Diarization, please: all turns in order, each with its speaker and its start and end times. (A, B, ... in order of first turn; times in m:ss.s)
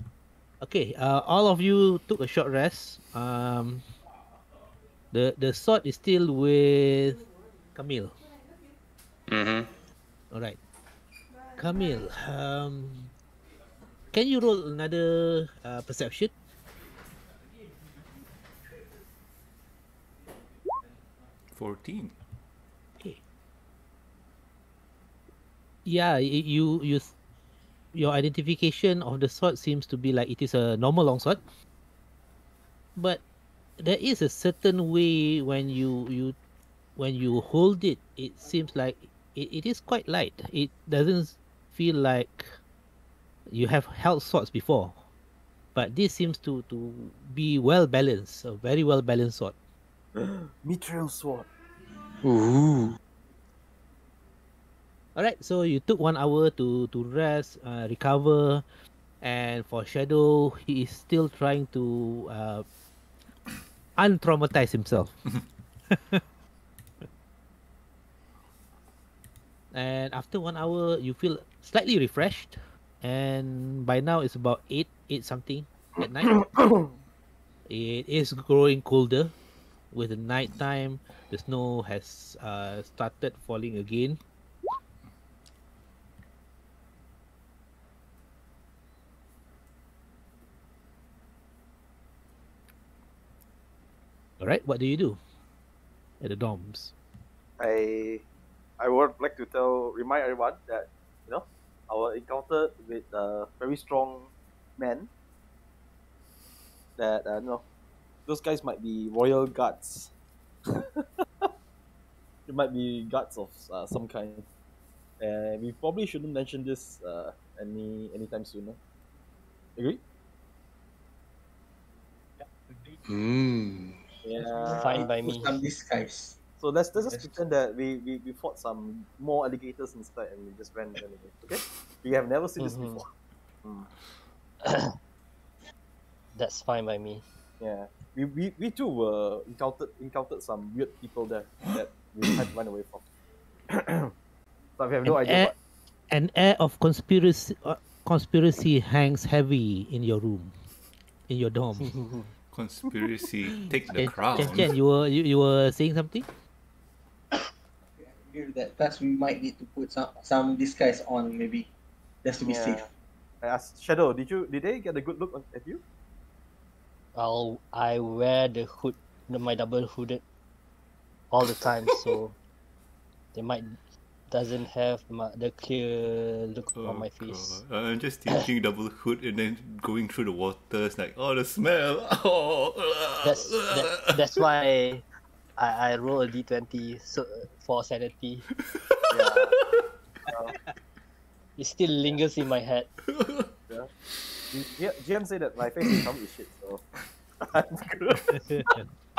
0:00.6-0:03.8 A
0:05.1-0:07.2 A
0:07.7-0:08.2 A
0:09.3-0:09.7 B
0:10.3-0:10.6 A
0:11.6-0:13.1 A
0:14.1-0:16.3 A
0:21.5-0:22.1 C
0:25.8-0:27.1 A
0:27.9-0:31.4 A
0:33.0-0:33.2 A
0:33.8-0:36.4 A
0:37.0-0:42.6 A
0:43.5-0:45.0 A
0:45.7-0:49.5 A
0:50.2-0:51.5 D
0:52.2-0:53.0 B
0:55.2-0:58.6 A
0:59.2-1:02.6 A
1:04.0-1:05.2 A
1:05.9-1:06.2 A
1:09.7-1:16.4 A
1:16.0-1:16.9 D
1:17.7-1:19.3 A
1:19.9-1:24.2 A
1:34.4-1:35.2 A
1:36.2-1:36.9 A
1:37.6-1:38.2 D
1:38.8-1:45.1 D
1:47.0-1:47.6 D
1:48.3-1:50.1 D
1:50.7-1:51.5 D
1:52.5-1:54.4 D
1:55.2-1:58.8 D
2:02.4-2:03.0 E
2:03.1-2:04.0 B
2:04.2-2:05.0 D
2:04.4-2:06.4 E
2:04.7-2:05.6 F
2:06.6-2:13.1 D
2:07.0-2:07.4 E
2:12.6-2:13.0 F
2:13.6-2:13.9 D
2:14.7-2:14.9 F
2:16.3-2:17.2 F
2:17.6-2:23.0 D
2:23.7-2:24.1 D
2:24.8-2:25.5 D
2:25.0-2:25.5 A
2:26.1-2:30.5 A
2:31.3-2:32.0 A
2:31.8-2:32.2 F
2:32.5-2:34.7 C
2:33.9-2:36.3 A
2:38.0-2:41.7 E
2:42.2-2:42.9 E
2:42.4-2:42.9 D
2:43.4-2:45.8 D
2:47.1-2:50.2 F
2:51.3-2:52.4 F
2:53.3-2:53.8 F
2:54.3-2:57.6 F
2:56.8-3:04.2 C
3:03.2-3:05.0 F
3:05.6-3:08.4 F
3:09.1-3:09.6 D
3:10.3-3:10.6 D
3:11.6-3:12.9 F
3:13.1-3:13.5 C
3:14.5-3:16.8 D
3:17.4-3:18.8 D
3:18.4-3:18.9 A